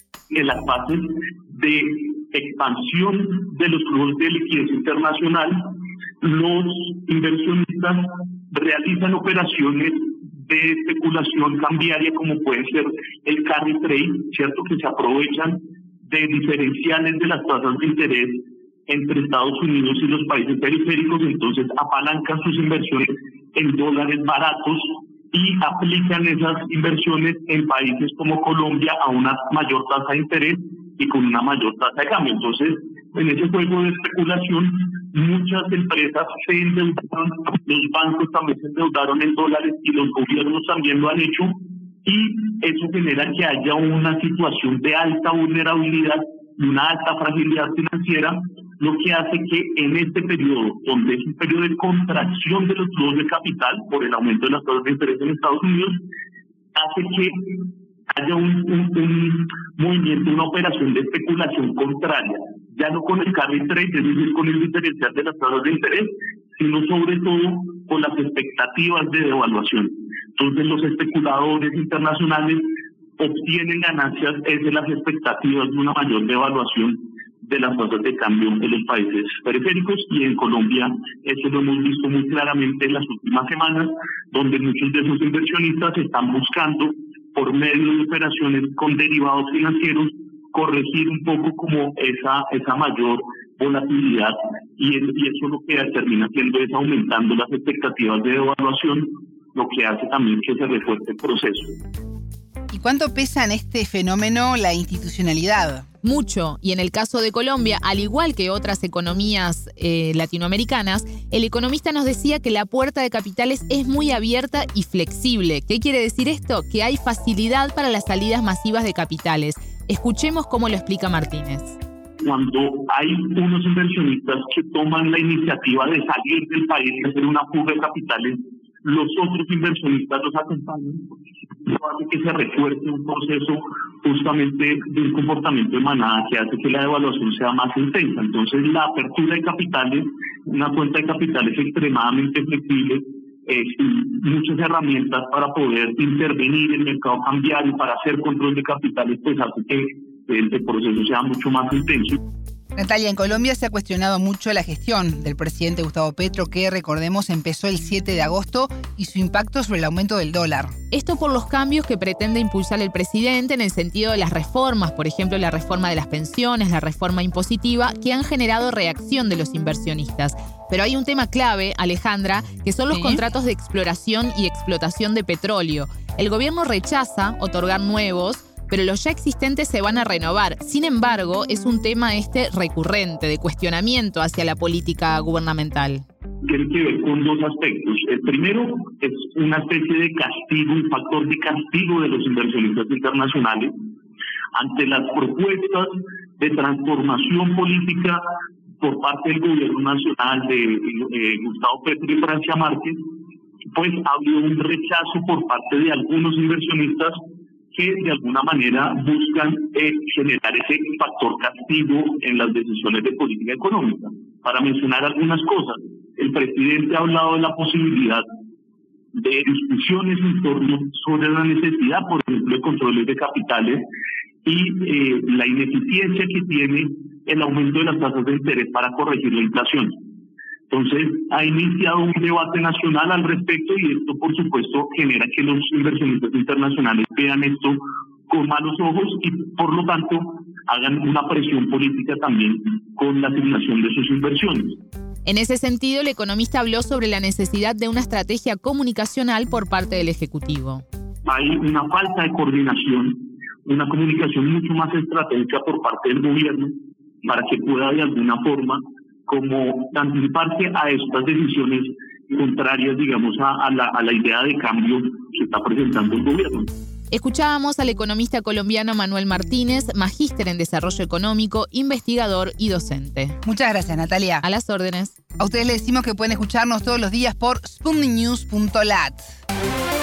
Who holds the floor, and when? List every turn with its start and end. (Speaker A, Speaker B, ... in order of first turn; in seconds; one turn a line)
Speaker A: 0.3-56.0
Speaker A: 56.7-101.8
Speaker B: 102.7-105.8
Speaker C: 106.0-121.8
Speaker A: 122.2-131.1
Speaker A: 131.6-152.2
Speaker B: 152.8-160.7
Speaker C: 160.9-186.0
Speaker B: 172.9-173.2
Speaker A: 186.4-193.7
Speaker A: 194.5-198.2
Speaker A: 198.8-203.0
Speaker A: 203.7-207.2
Speaker A: 207.7-218.2
Speaker A: 219.1-223.8
Speaker A: 224.4-229.9
Speaker A: 230.7-244.8
Speaker C: 245.2-250.8
Speaker A: 251.2-266.7
Speaker C: 267.1-273.4
Speaker B: 273.4-274.4
Speaker C: 274.4-275.1
Speaker B: 275.4-279.2